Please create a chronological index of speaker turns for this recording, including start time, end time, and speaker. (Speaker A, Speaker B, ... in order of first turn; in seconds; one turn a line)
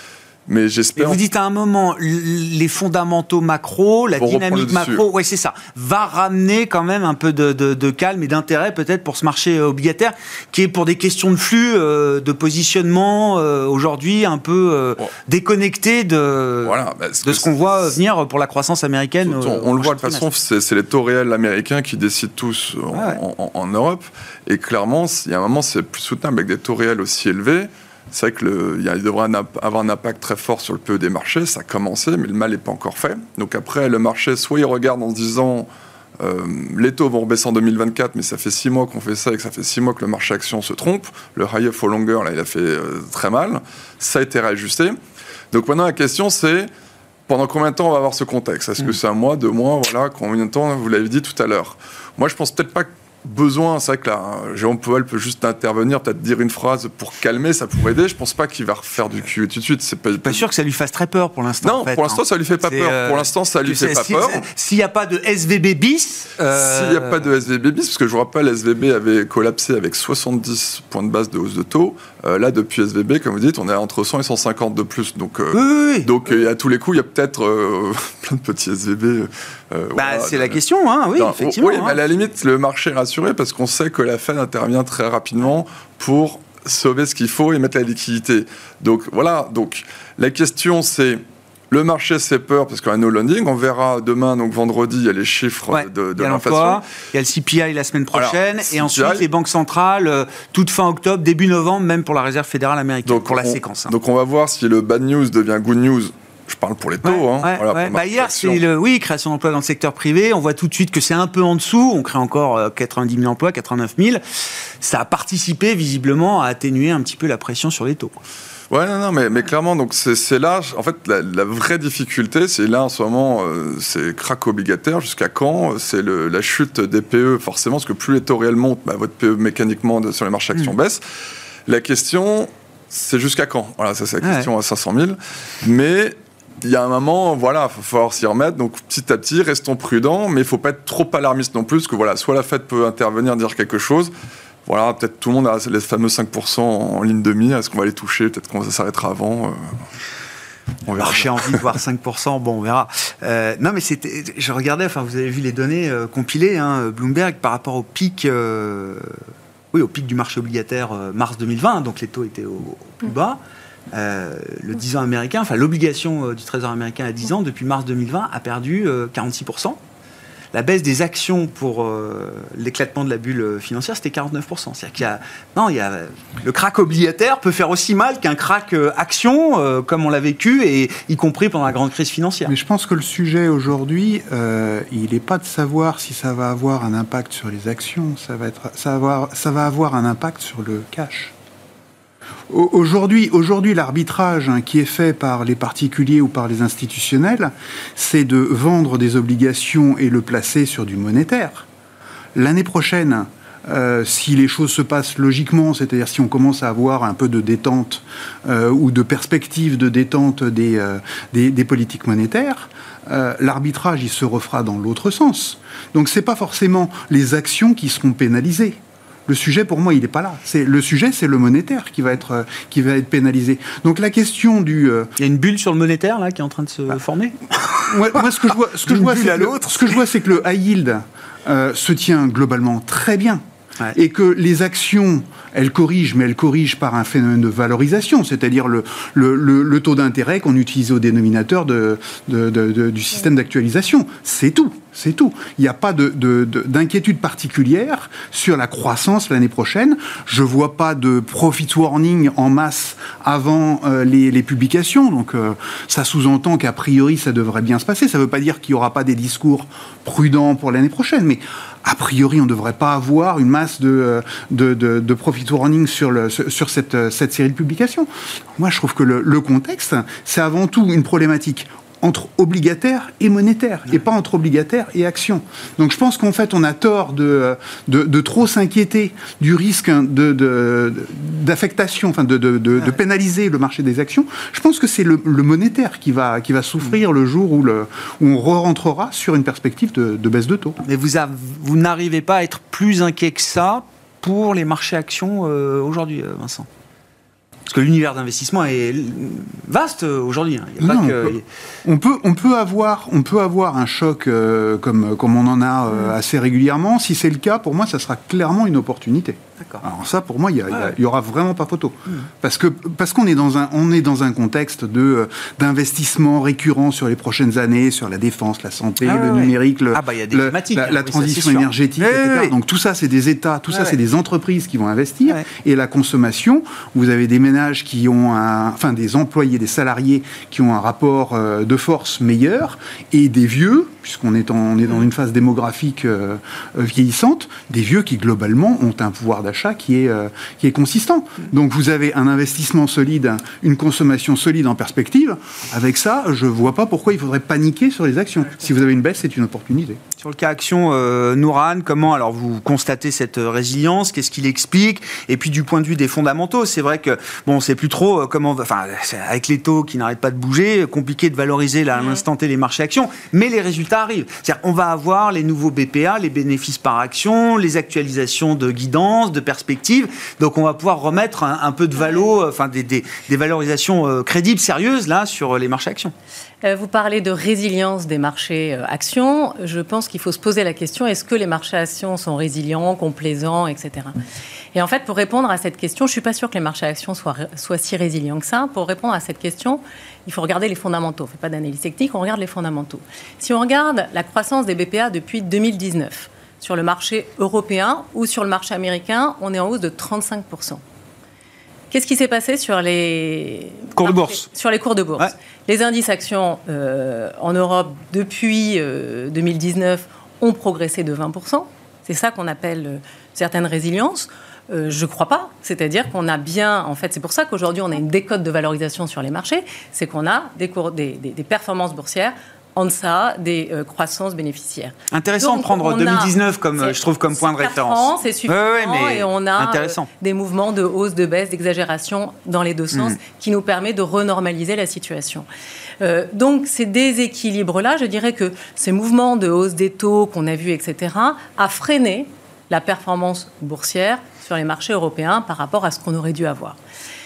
Speaker A: 0.5-1.2
Speaker B: 1.0-20.3
Speaker A: 4.2-5.0
Speaker A: 16.6-17.9
Speaker A: 19.2-35.7
Speaker B: 22.9-23.2
Speaker A: 36.2-45.0
Speaker A: 45.5-46.7
Speaker A: 47.3-60.4
Speaker B: 60.2-67.2
Speaker A: 61.6-64.4
Speaker A: 66.5-80.6
Speaker B: 75.5-76.1
Speaker B: 80.0-82.0
Speaker A: 81.2-96.8
Speaker B: 95.7-103.9
Speaker A: 98.1-99.2
Speaker A: 103.0-108.6
Speaker B: 107.0-114.2
Speaker B: 114.8-118.2
Speaker A: 118.7-131.0
Speaker A: 131.7-144.1
Speaker B: 134.2-134.5
Speaker A: 144.7-149.6
Speaker A: 150.8-151.6
Speaker B: 150.9-159.2
Speaker B: 159.7-163.4
Speaker B: 163.9-169.8
Speaker B: 170.5-182.5
Speaker C: 182.5-191.3
Speaker C: 192.5-201.7
Speaker C: 202.3-225.1
Speaker B: 225.2-230.0
Speaker C: 227.9-233.4
Speaker C: 233.9-290.8
Speaker B: 290.8-296.7
Speaker B: 297.7-301.4
Speaker C: 300.8-350.0
Speaker B: 319.0-322.5
Speaker B: 350.2-376.1
Speaker D: 376.6-384.1
Speaker D: 384.7-400.8
Speaker D: 401.9-435.4
Speaker B: 403.9-404.5
Speaker B: 425.1-430.1
Speaker D: 436.0-446.8